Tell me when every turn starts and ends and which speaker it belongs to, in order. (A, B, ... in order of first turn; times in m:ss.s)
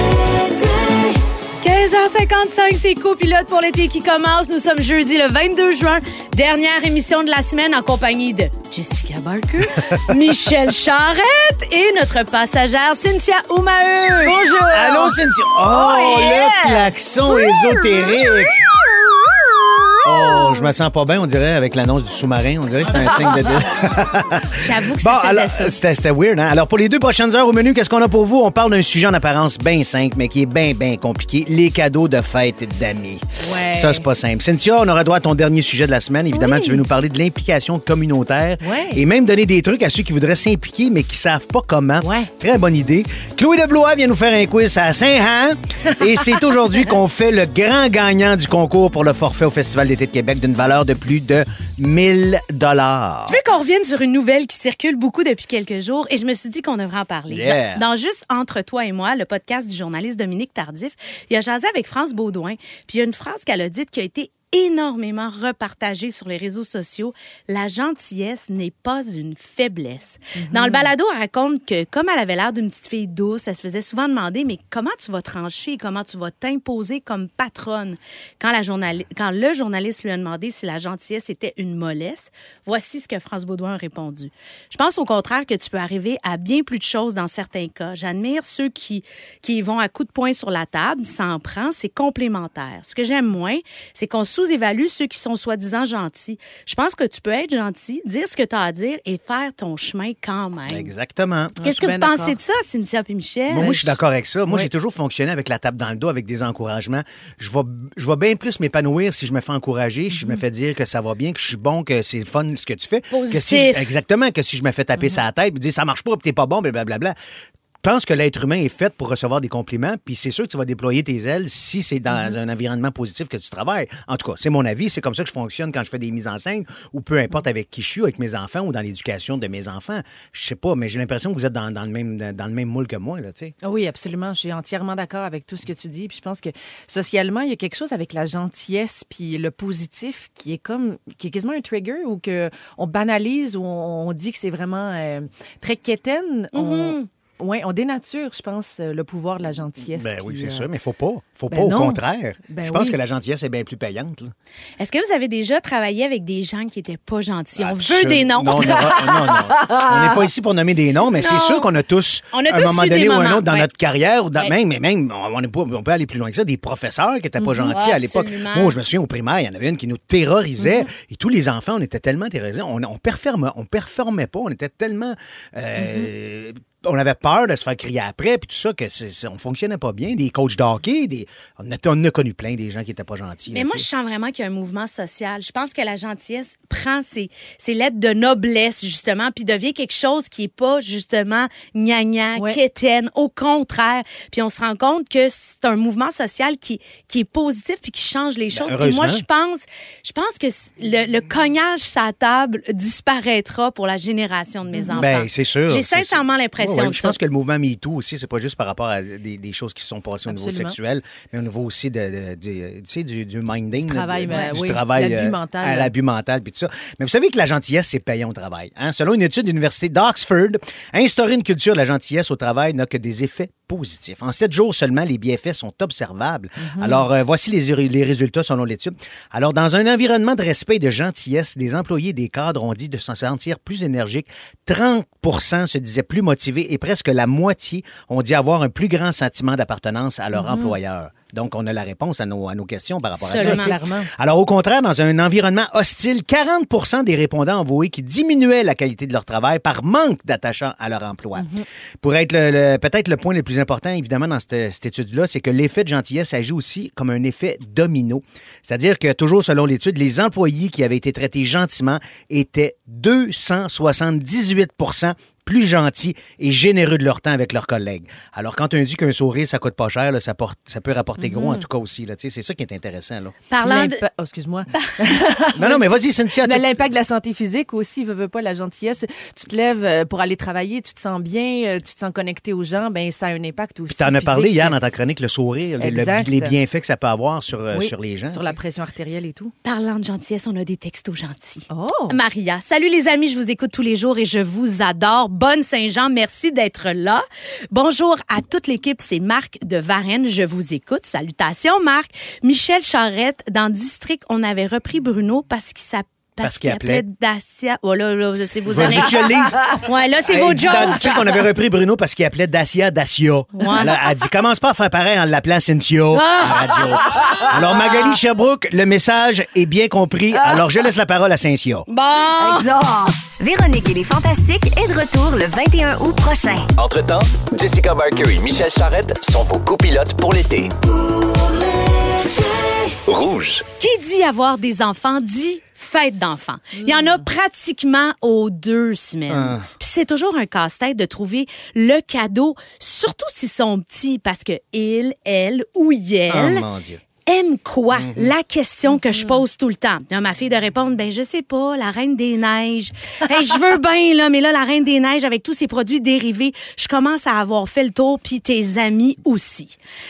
0:01.6-0:14.4 A
0:14.2-0:15.2 B
0:14.7-0:18.6 C
0:15.7-0:20.7 B
0:20.0-0:53.4 C
0:24.6-0:25.8 A
0:33.4-0:34.1 B
0:38.6-0:39.0 B
0:42.0-0:42.3 B
0:53.3-1:40.9 A
0:57.3-0:57.8 C
1:10.4-1:10.9 B
1:40.7-1:41.6 C
1:41.6-1:42.4 B
1:41.6-1:43.9 A
1:43.5-1:57.2 C
1:50.1-1:50.4 B
1:53.1-1:53.9 A
1:57.8-2:13.5 C
2:13.6-2:30.7 B
2:26.5-2:27.1 A
2:30.0-2:34.3 C
2:31.5-2:33.0 B
2:34.8-2:38.9 A
2:37.6-3:03.9 C
2:38.7-2:40.3 B
2:41.2-2:41.7 A
2:42.3-2:43.7 A
2:47.4-2:47.7 B
2:47.6-2:48.8 A
2:50.6-2:50.9 B
3:03.5-3:27.2 A
3:18.5-3:19.2 C
3:24.7-3:25.1 B
3:25.0-4:33.4 C
3:30.3-3:30.8 B
3:33.8-3:35.9 B
3:34.3-3:34.5 A
3:46.6-3:47.0 B
4:00.3-4:00.8 B
4:03.2-4:03.8 A
4:03.3-4:04.1 B
4:11.4-4:11.6 B
4:31.2-4:31.6 B
4:33.5-4:34.0 A
4:33.6-4:44.8 B
4:35.6-4:36.7 C
4:43.9-4:48.6 C
4:45.8-4:46.5 B
4:47.7-4:49.5 B
4:49.6-5:11.3 A
4:51.7-4:52.2 B
5:06.4-5:07.0 C
5:08.7-5:09.7 C
5:10.2-5:21.8 C
5:13.6-5:14.0 A
5:16.1-5:16.8 A
5:21.9-5:22.7 A
5:22.4-5:23.2 B
5:23.4-5:26.7 D
5:26.8-5:30.8 E
5:32.4-5:33.6 E
5:33.8-5:46.7 A
5:36.8-5:37.2 B
5:39.3-5:39.6 C
5:46.3-5:47.0 C
5:47.3-5:59.8 A
5:47.9-5:48.3 C
5:49.0-5:49.4 B